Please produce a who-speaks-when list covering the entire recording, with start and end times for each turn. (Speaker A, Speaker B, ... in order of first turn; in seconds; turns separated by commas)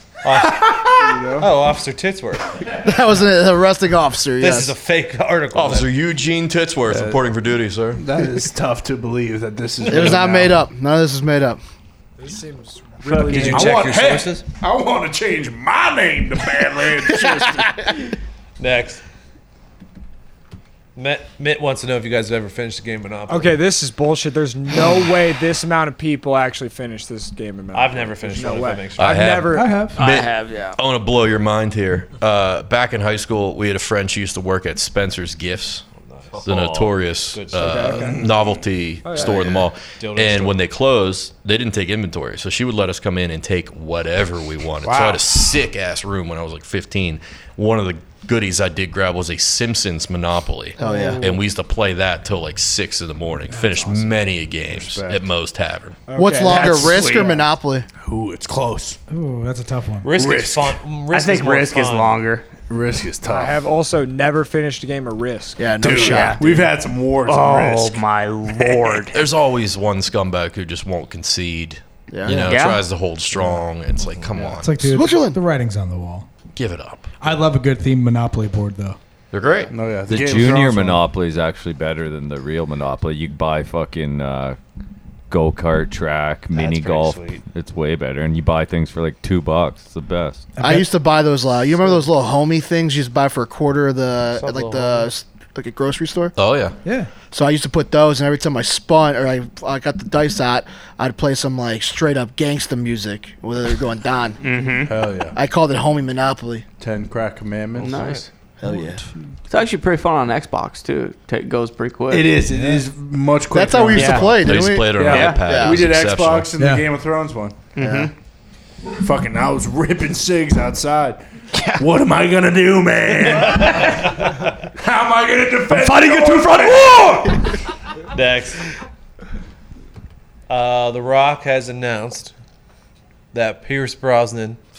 Speaker A: 0.2-2.6, Speaker B: 0.7-1.5, Speaker C: 2.7-4.7, Speaker A: 4.4-5.9, Speaker D: 5.5-8.0, Speaker B: 6.9-7.2, Speaker B: 7.9-10.6, Speaker A: 9.8-10.2, Speaker C: 9.9-11.6, Speaker E: 12.2-13.8, Speaker F: 13.0-13.7, Speaker B: 13.2-17.8, Speaker A: 13.3-14.4, Speaker A: 18.6-19.0, Speaker A: 20.9-23.6, Speaker E: 23.3-29.8, Speaker A: 27.7-29.4, Speaker D: 29.0-35.8, Speaker G: 29.5-30.0, Speaker F: 29.9-30.8, Speaker A: 36.0-36.4, Speaker H: 36.3-37.0, Speaker D: 36.4-56.0, Speaker A: 37.3-37.9, Speaker E: 37.5-38.2, Speaker B: 37.9-38.3, Speaker E: 39.0-39.4, Speaker A: 39.1-39.4, Speaker A: 40.0-40.6, Speaker B: 44.8-45.3, Speaker E: 50.8-51.3, Speaker C: 50.8-51.2, Speaker B: 54.7-55.2, Speaker E: 56.1-57.4, Speaker C: 56.1-57.9, Speaker F: 56.4-57.4, Speaker B: 58.0-59.0, Speaker G: 59.1-60.1, Speaker A: 60.0-62.2, Speaker B: 60.1-60.8, Speaker F: 61.1-62.5, Speaker B: 62.7-63.6, Speaker E: 63.2-65.9, Speaker C: 65.6-66.4, Speaker B: 65.8-68.0, Speaker F: 65.9-66.7, Speaker F: 67.2-69.2, Speaker D: 69.1-75.0, Speaker C: 72.1-72.5, Speaker F: 72.3-72.8, Speaker B: 73.3-73.6, Speaker B: 74.3-74.7, Speaker G: 74.6-76.2, Speaker C: 74.8-75.4, Speaker D: 76.5-77.2, Speaker G: 77.2-79.0, Speaker D: 79.3-79.7, Speaker B: 79.7-81.1, Speaker H: 80.1-84.6, Speaker H: 85.3-90.5, Speaker A: 86.5-87.4, Speaker G: 90.6-90.9, Speaker C: 90.6-96.3, Speaker A: 94.3-95.1, Speaker D: 96.4-96.8, Speaker G: 96.8-97.1, Speaker C: 97.3-104.4, Speaker F: 104.4-104.9, Speaker B: 104.9-105.3, Speaker C: 105.3-106.7, Speaker B: 106.8-108.1, Speaker F: 107.8-108.3, Speaker A: 107.8-108.2, Speaker C: 108.6-109.0, Speaker F: 109.5-112.3, Speaker B: 112.1-117.5, Speaker A: 112.5-112.8, Speaker C: 113.5-115.9, Speaker F: 113.9-114.3, Speaker D: 114.2-116.5, Speaker F: 115.1-115.4, Speaker G: 116.6-116.9, Speaker F: 117.8-118.1, Speaker C: 117.8-118.1, Speaker B: 119.0-121.2, Speaker F: 121.5-121.8, Speaker B: 121.8-124.1, Speaker A: 123.3-124.5, Speaker B: 124.7-127.4, Speaker F: 125.7-127.0, Speaker A: 128.1-128.7, Speaker A: 130.5-132.3, Speaker A: 133.3-134.6